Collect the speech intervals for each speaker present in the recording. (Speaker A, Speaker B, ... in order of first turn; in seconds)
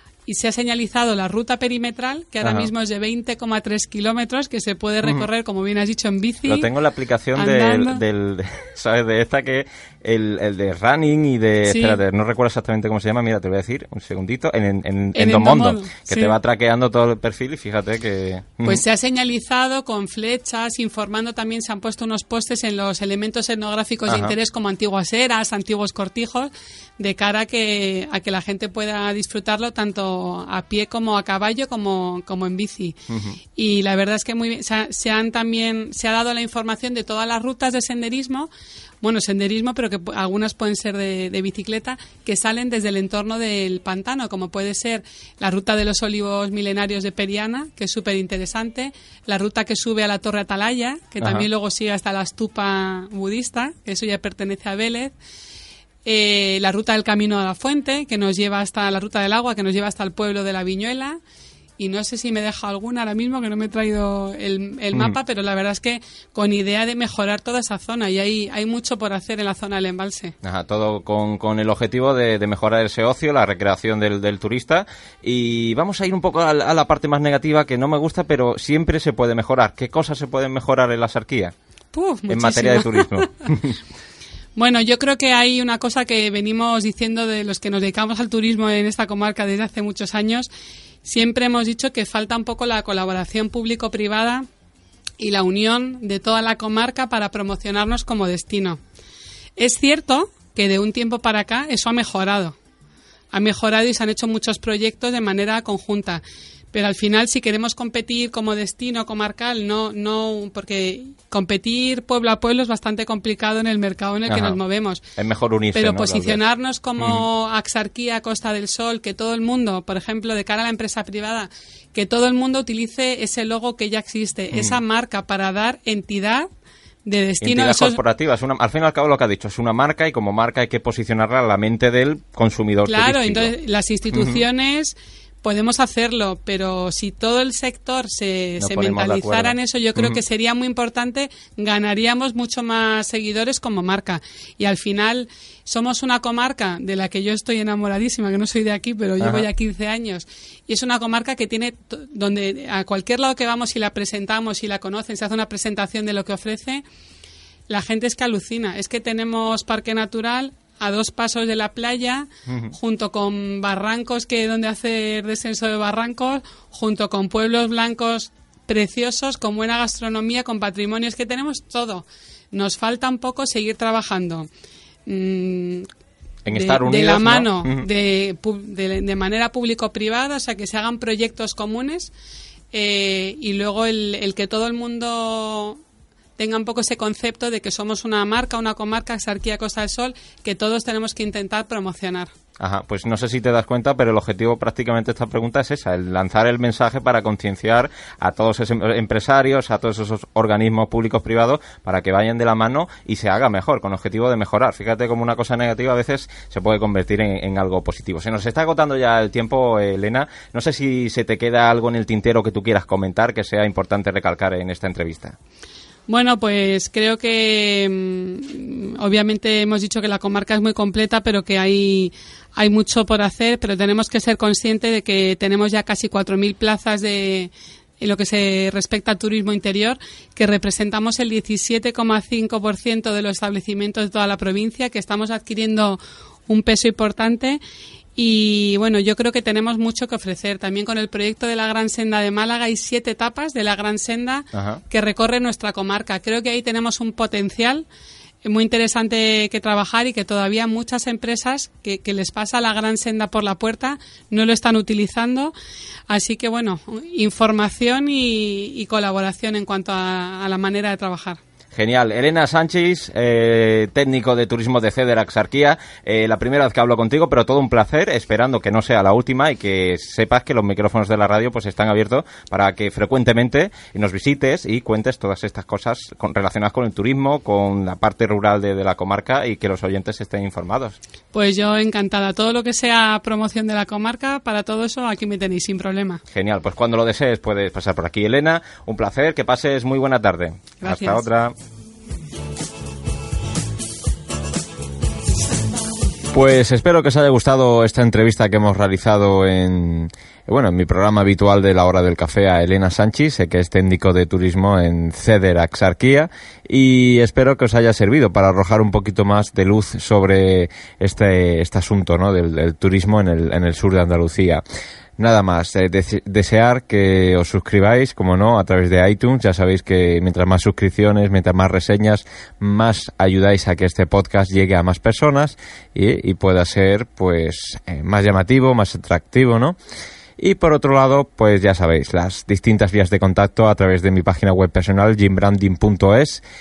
Speaker A: 0.2-6.7, 7.3-8.0, 11.7-12.0, 15.1-16.4, 18.6-33.0, 33.5-38.5, 39.0-55.1, 56.0-61.2, 61.8-70.3, 81.9-83.2, 84.5-90.5, 91.0-94.5, 95.2-98.8, 99.6-102.5, 103.3-106.2, 106.7-115.0, 115.7-126.5, 127.0-128.0, 132.8-156.8, 157.7-174.5, 175.1-175.9, 176.5-182.1, 182.7-185.8, 186.4-192.3, 216.1-237.6, 238.2-247.8, 248.4-255.5, 256.1-261.4, 281.3-286.2, 290.8-291.2
Speaker B: 2.4-2.7, 6.5-18.8, 24.1-24.3, 33.1-33.4, 51.2-51.5, 70.4-81.5, 82.3-83.8, 114.3-114.6, 115.2-116.4, 117.0-117.2, 124.5-124.8, 127.4-133.5, 134.1-134.4, 138.6-140.2, 149.2-149.5, 162.5-162.7, 176.4-177.8, 192.6-215.3, 244.5-244.8, 261.7-281.0, 286.3-291.5, 296.3-314.6, 315.2-329.8, 330.4-336.4